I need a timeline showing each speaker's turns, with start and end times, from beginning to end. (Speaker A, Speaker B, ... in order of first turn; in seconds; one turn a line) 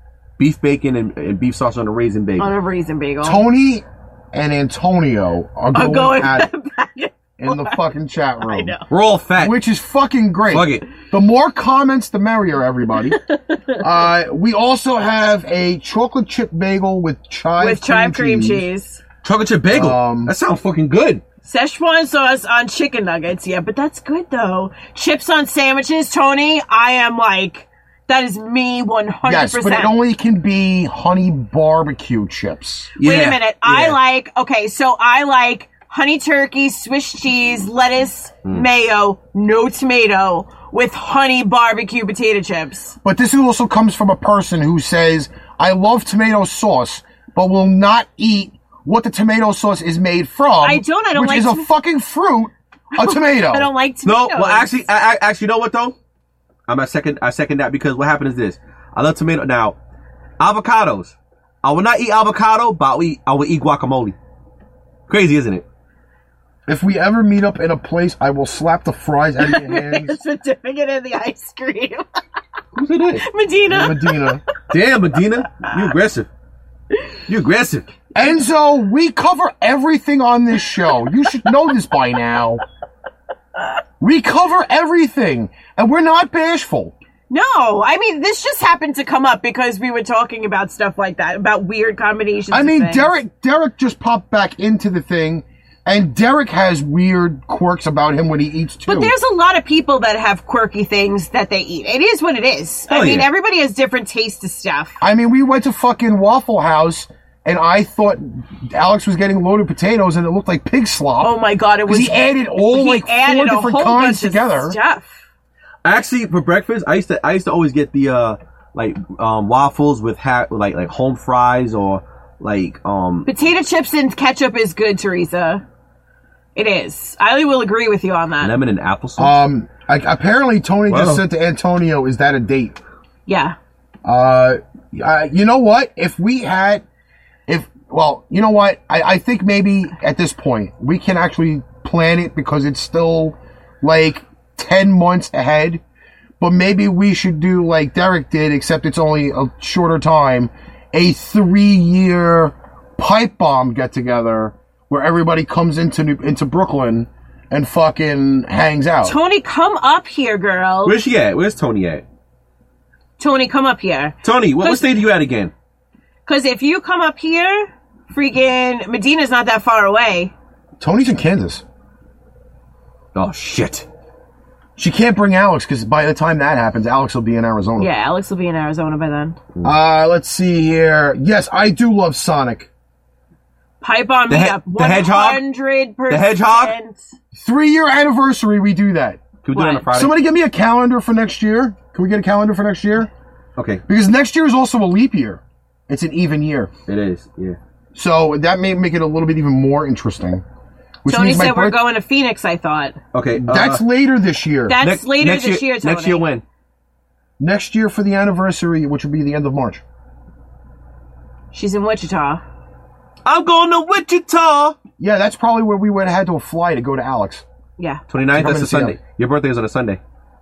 Speaker A: 0.4-2.5
Speaker B: 2.4-3.4
Speaker C: 3.2-6.5
Speaker B: 5.7-7.8
Speaker C: 7.4-8.8
Speaker B: 8.4-8.9
Speaker A: 8.9-9.6
Speaker C: 9.4-13.2
Speaker A: 10.5-10.9
Speaker B: 13.2-13.8
Speaker C: 13.8-18.7
Speaker B: 17.6-19.0
Speaker A: 19.2-21.2
Speaker C: 19.7-20.3
Speaker B: 21.4-30.0
Speaker C: 29.2-32.9
Speaker A: 33.0-34.0
Speaker B: 33.0-43.0
Speaker C: 43.0-53.7
Speaker B: 50.6-51.7
Speaker B: 53.0-54.8
Speaker A: 54.0-55.9
Speaker A: 56.7-59.8
Speaker A: 60.4-64.2
Speaker A: 65.1-65.7
Speaker C: 66.7-70.2
Speaker B: 69.4-72.0
Speaker A: 72.8-73.2
Speaker B: 73.2-74.4
Speaker C: 73.7-74.4
Speaker A: 74.6-76.3
Speaker A: 77.3-77.9
Speaker C: 78.1-82.6
Speaker C: 84.0-86.9
Speaker B: 87.3-93.1
Speaker C: 92.5-99.1
Speaker B: 98.9-105.0
Speaker A: 102.9-103.3
Speaker C: 105.0-111.4
Speaker B: 111.2-115.1
Speaker C: 111.9-114.8
Speaker A: 115.8-123.3
Speaker B: 123.3-125.6
Speaker B: 126.5-128.5
Speaker A: 128.4-129.4
Speaker C: 129.2-132.8
Speaker A: 130.9-131.2
Speaker B: 133.3-133.6
Speaker C: 134.1-136.8
Speaker C: 137.5-145.8
Speaker C: 146.4-159.2
Speaker B: 159.0-161.0
Speaker A: 160.8-162.0
Speaker B: 163.2-164.9
Speaker A: 164.2-165.5
Speaker B: 166.3-170.3
Speaker C: 170.8-171.6
Speaker A: 173.1-173.9
Speaker C: 174.8-177.9
Speaker B: 177.8-179.4
Speaker C: 179.6-182.7
Speaker B: 183.8-187.1
Speaker A: 184.3-185.4
Speaker A: 186.1-186.8
Speaker C: 187.3-189.2
Speaker A: 189.4-190.1
Speaker B: 189.6-189.9
Speaker C: 189.9-193.1
Speaker A: 193.6-193.8
Speaker C: 193.9-196.7
Speaker A: 196.9-197.6
Speaker C: 197.9-200.4
Speaker C: 201.0-201.8
Speaker B: 201.1-203.0
Speaker A: 203.1-203.8
Speaker C: 203.4-204.8
Speaker B: 204.7-206.2
Speaker A: 204.8-206.4
Speaker C: 207.4-209.8
Speaker B: 211.5-212.4
Speaker A: 213.2-214.8
Speaker C: 215.0-217.4
Speaker B: 217.8-218.0
Speaker A: 218.1-220.0
Speaker C: 218.3-219.0